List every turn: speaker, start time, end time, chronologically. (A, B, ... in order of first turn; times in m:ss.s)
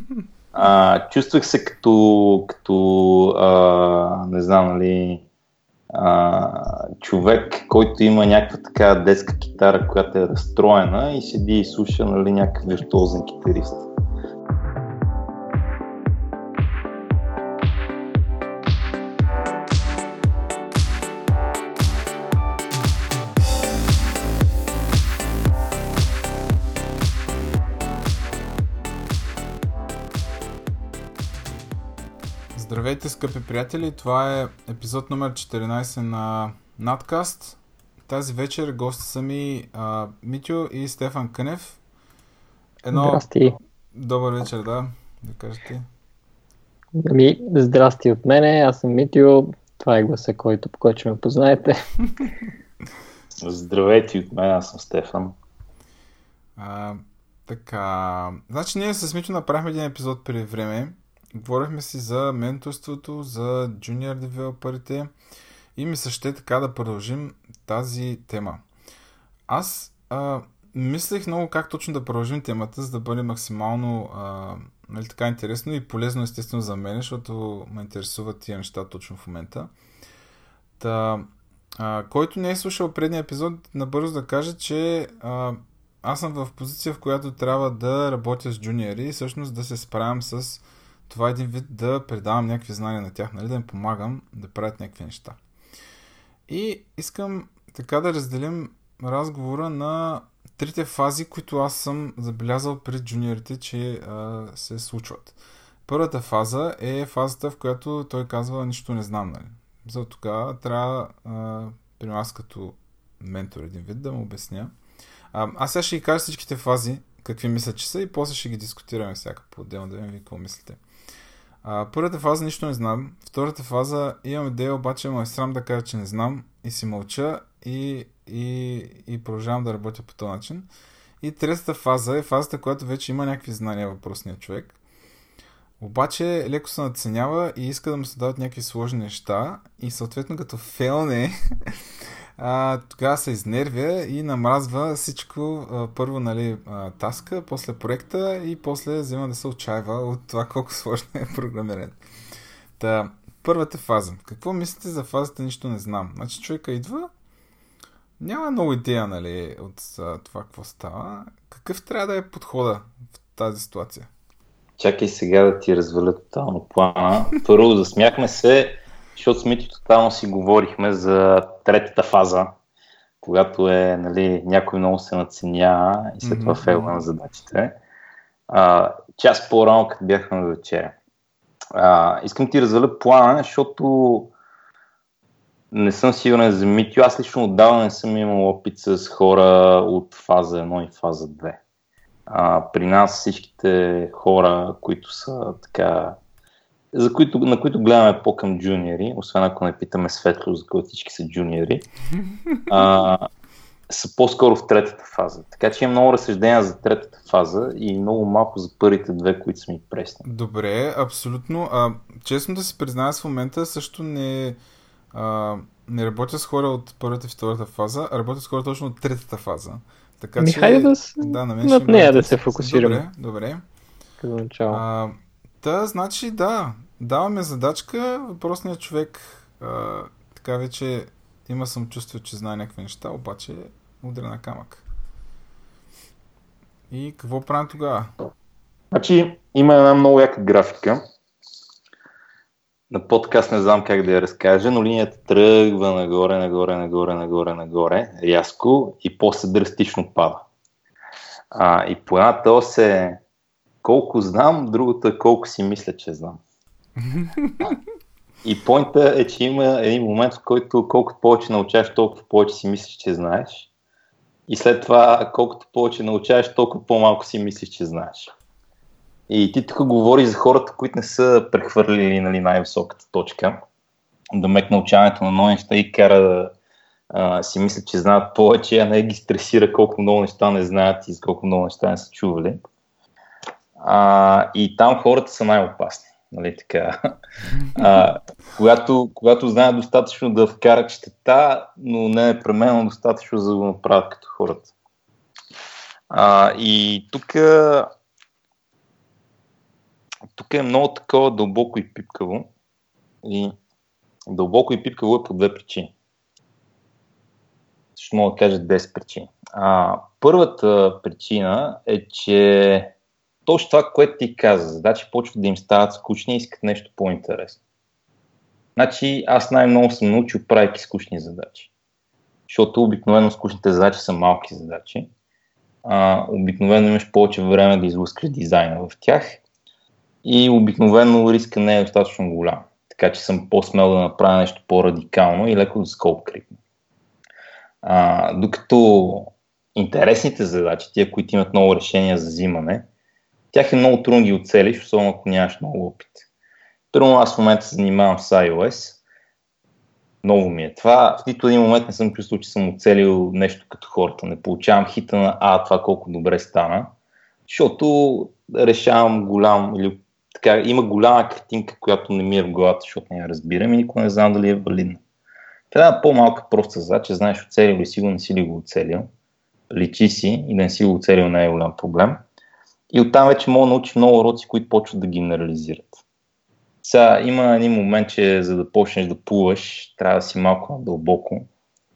0:00.5-0:05.2 A
0:05.9-0:13.9 A
0:32.6-0:41.8 B
0:42.8-0:43.2 B
0:42.9-0:43.6 C
0:43.9-0:45.8 B
0:47.0-0:51.8 C
0:53.4-0:55.3 A
0:56.6-1:05.1 B
1:05.8-1:08.6 B
1:09.5-1:19.7 B
1:20.8-1:35.4 B
1:36.5-1:54.7 B
1:55.3-2:00.8 B
2:01.6-2:10.7 B
2:11.2-2:14.8 B
2:15.8-2:21.8 B
2:22.4-2:32.0 B
2:32.8-2:37.1 B
2:38.2-2:44.1 B
2:44.8-2:52.5 A
2:53.2-2:57.8 A
2:56.2-2:57.0 B
2:58.5-3:01.0 A
3:01.8-3:04.3 A
3:05.7-3:11.6 A
3:12.3-3:16.2 A
3:16.9-3:21.8 A
3:22.7-3:23.3 A
3:23.9-3:30.2 A
3:30.2-3:34.6 B
3:35.1-3:43.6 B
3:40.4-3:43.0 C
3:44.2-3:44.8 C
3:44.7-3:54.8 B
3:56.9-3:58.1 B
3:58.9-4:01.0 A
4:02.9-4:10.5 A
4:11.5-4:13.2 A
4:13.8-4:16.4 A
4:17.1-4:17.8 B
4:18.4-4:23.7 A
4:24.5-4:28.3 A
4:29.3-4:33.6 A
4:34.3-4:36.5 A
4:37.1-4:42.6 A
4:43.8-4:46.9 A
4:47.5-4:48.0 B
4:47.8-4:54.7 A
4:56.1-4:57.9 A
5:00.3-5:02.5 A
5:03.2-5:03.5 A
5:04.3-5:05.9 A
5:08.0-5:12.9 A
5:13.4-5:17.6 A
5:18.8-5:21.7 A
5:22.5-5:25.1 A
5:25.8-5:29.4 A
5:30.2-5:36.6 A
5:37.8-5:42.9 A
5:43.5-5:46.2 A
5:46.9-5:49.0 A
5:50.2-5:56.9 A
5:57.4-6:05.0 A
6:05.7-6:09.1 A
6:09.7-6:12.2 A
6:12.9-6:16.0 A
6:16.8-6:21.5 A